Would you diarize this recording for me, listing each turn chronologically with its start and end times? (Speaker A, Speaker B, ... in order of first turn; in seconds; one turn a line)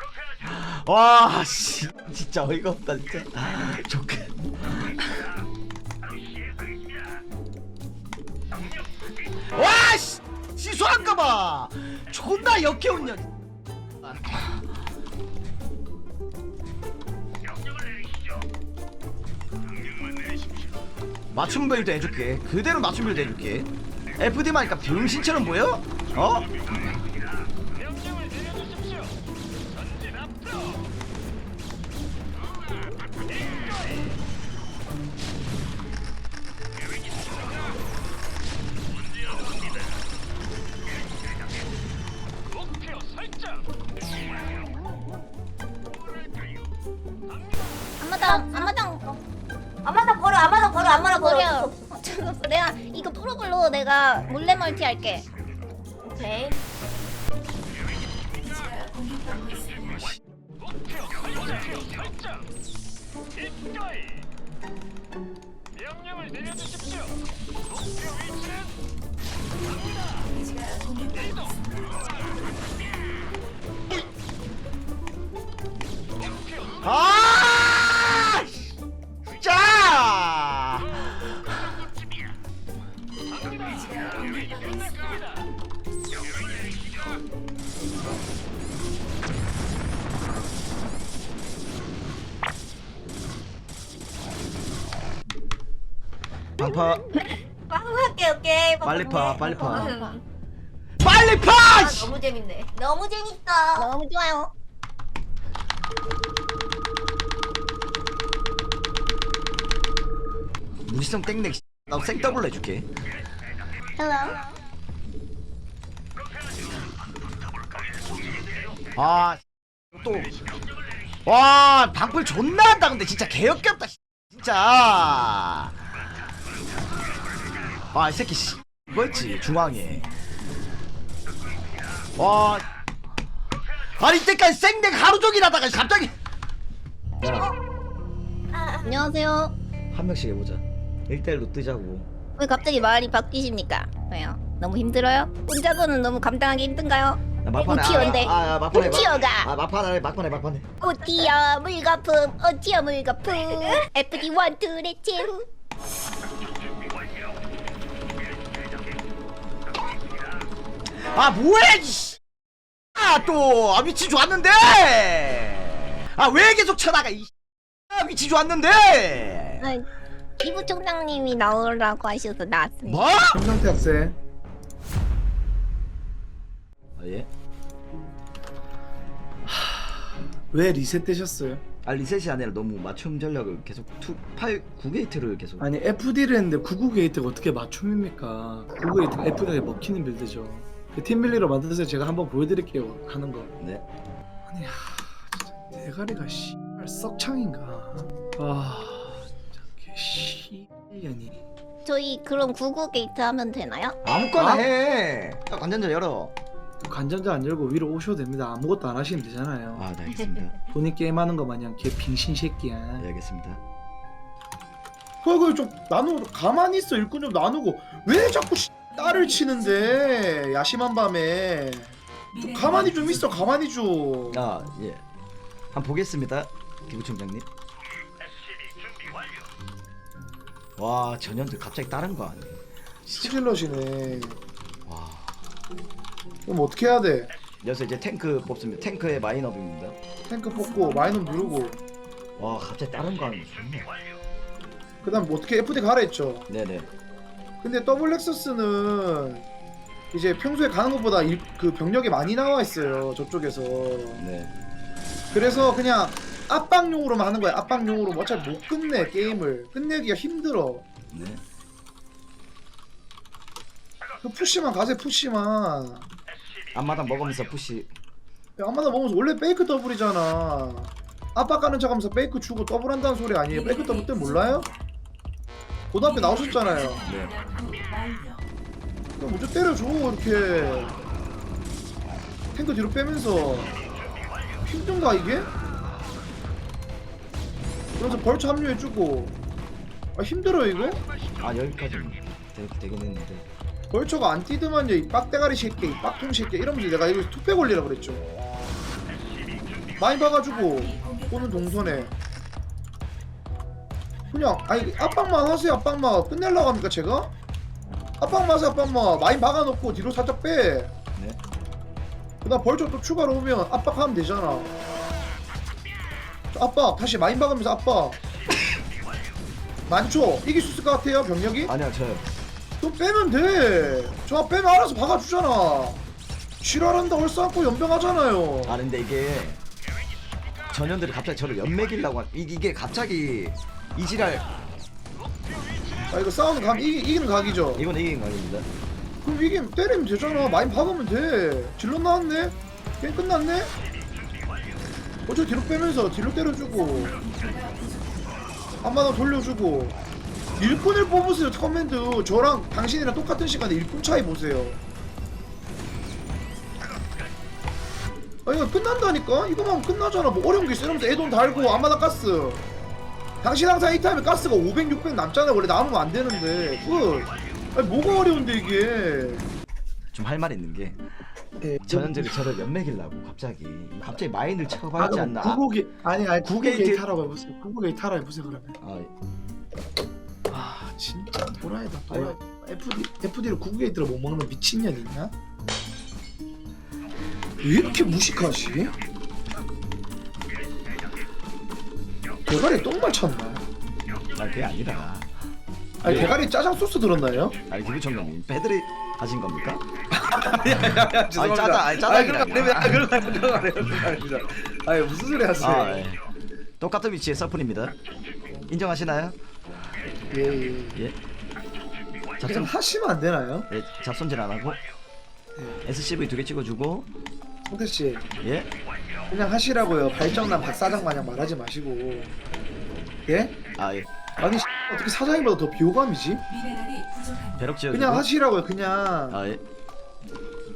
Speaker A: 0.4-5.2
Speaker A: 9.5-13.2
Speaker A: 14.0-14.3
Speaker A: 21.3-26.5
Speaker B: 48.0-49.0
Speaker C: 48.2-49.2
Speaker C: 49.8-51.8
Speaker B: 50.7-55.2
Speaker C: 56.0-56.6
Speaker D: 58.4-60.2
Speaker D: 70.2-72.3
Speaker A: 76.8-78.6
Speaker A: 79.4-80.9
Speaker D: 83.5-85.4
Speaker A: 96.6-97.0
Speaker B: 96.6-97.4
Speaker C: 97.7-100.2
Speaker A: 98.8-99.9
Speaker B: 99.4-100.2
Speaker A: 101.0-102.1
Speaker C: 101.6-103.9
Speaker B: 103.8-104.5
Speaker A: 110.8-112.9
Speaker B: 114.0-114.5
Speaker A: 119.0-120.3
Speaker A: 121.2-125.7
Speaker A: 127.9-130.0
Speaker A: 132.2-132.6
Speaker A: 134.0-136.1
Speaker A: 137.2-137.5
Speaker C: 138.5-139.0
Speaker B: 138.8-139.5
Speaker A: 139.9-142.1
Speaker B: 142.4-149.5
Speaker A: 147.4-150.7
Speaker B: 150.8-155.5
Speaker A: 161.0-162.2
Speaker A: 162.9-167.3
Speaker A: 167.9-169.6
Speaker B: 169.6-169.9
Speaker B: 170.4-173.1
Speaker A: 172.8-173.4
Speaker E: 173.3-174.2
Speaker A: 177.0-177.3
Speaker E: 179.4-181.6
Speaker A: 181.8-185.7
Speaker E: 185.6-193.5
Speaker E: 194.5-201.4
Speaker B: 201.8-204.0
Speaker A: 204.0-206.3
Speaker E: 204.3-204.6
Speaker E: 206.8-209.9
Speaker A: 209.7-210.6
Speaker E: 210.7-213.1
Speaker A: 213.0-213.6
Speaker E: 215.2-224.4
Speaker D: 222.3-223.2
Speaker A: 224.3-225.0
Speaker A: 225.7-227.4
Speaker A: 230.8-232.6
Speaker E: 233.1-234.4
Speaker A: 234.8-235.3
Speaker E: 236.4-237.3
Speaker A: 237.6-240.0
Speaker E: 240.3-241.8
Speaker D: 240.4-241.8
Speaker A: 242.4-243.9
Speaker E: 245.0-246.4
Speaker A: 246.5-246.9
Speaker E: 247.6-249.4
Speaker E: 250.1-254.2
Speaker A: 254.2-254.5
Speaker E: 255.3-260.9
Speaker A: 261.1-261.4
Speaker E: 264.2-266.1
Speaker A: 266.7-267.9
Speaker E: 268.6-274.7
Speaker D: 273.5-274.8
Speaker E: 275.9-277.0
Speaker D: 276.0-278.4
Speaker A: 277.1-277.3
Speaker E: 279.2-281.0
Speaker E: 282.5-283.8
Speaker E: 284.6-285.5
Speaker E: 288.0-289.4
Speaker E: 290.1-291.0
Speaker A: 291.4-293.5
Speaker E: 293.9-298.2
Speaker E: 300.0-302.1
Speaker D: 300.7-302.0
Speaker E: 304.3-307.3
Speaker E: 308.2-310.9
Speaker E: 312.4-314.7
Speaker E: 316.5-318.2
Speaker E: 319.9-321.7
Speaker A: 321.6-322.2
Speaker E: 322.8-326.0
Speaker E: 326.6-328.8
Speaker A: 328.6-329.6
Speaker A: 330.7-334.4
Speaker E: 336.1-337.8
Speaker A: 337.7-338.7
Speaker E: 339.2-343.7
Speaker E: 345.3-347.1
Speaker D: 346.7-348.5
Speaker E: 348.8-349.9
Speaker E: 350.6-354.8
Speaker E: 358.4-362.6
Speaker E: 363.4-369.5
Speaker A: 370.1-371.0
Speaker E: 371.6-372.5
Speaker A: 371.9-375.6
Speaker E: 375.0-378.8
Speaker A: 376.4-377.0
Speaker A: 378.8-379.1
Speaker E: 380.5-385.3
Speaker A: 382.1-382.4
Speaker E: 387.6-388.9
Speaker E: 392.5-393.6
Speaker A: 394.3-395.3
Speaker A: 396.0-396.4
Speaker E: 396.0-397.6
Speaker A: 397.7-399.8
Speaker E: 400.1-406.0
Speaker A: 400.8-403.1
Speaker A: 403.8-404.1
Speaker A: 405.6-406.2
Speaker A: 406.8-407.9
Speaker A: 408.7-409.4
Speaker E: 410.3-411.0
Speaker A: 412.4-412.7
Speaker E: 412.4-413.7
Speaker A: 413.7-414.8
Speaker E: 415.6-415.8
Speaker A: 415.8-417.1
Speaker E: 417.7-418.3
Speaker A: 418.4-418.7
Speaker E: 419.3-422.3
Speaker E: 423.3-423.6
Speaker A: 423.7-424.1
Speaker E: 424.4-426.4
Speaker D: 426.5-427.6
Speaker A: 427.6-428.3
Speaker E: 427.9-429.4
Speaker A: 429.3-429.6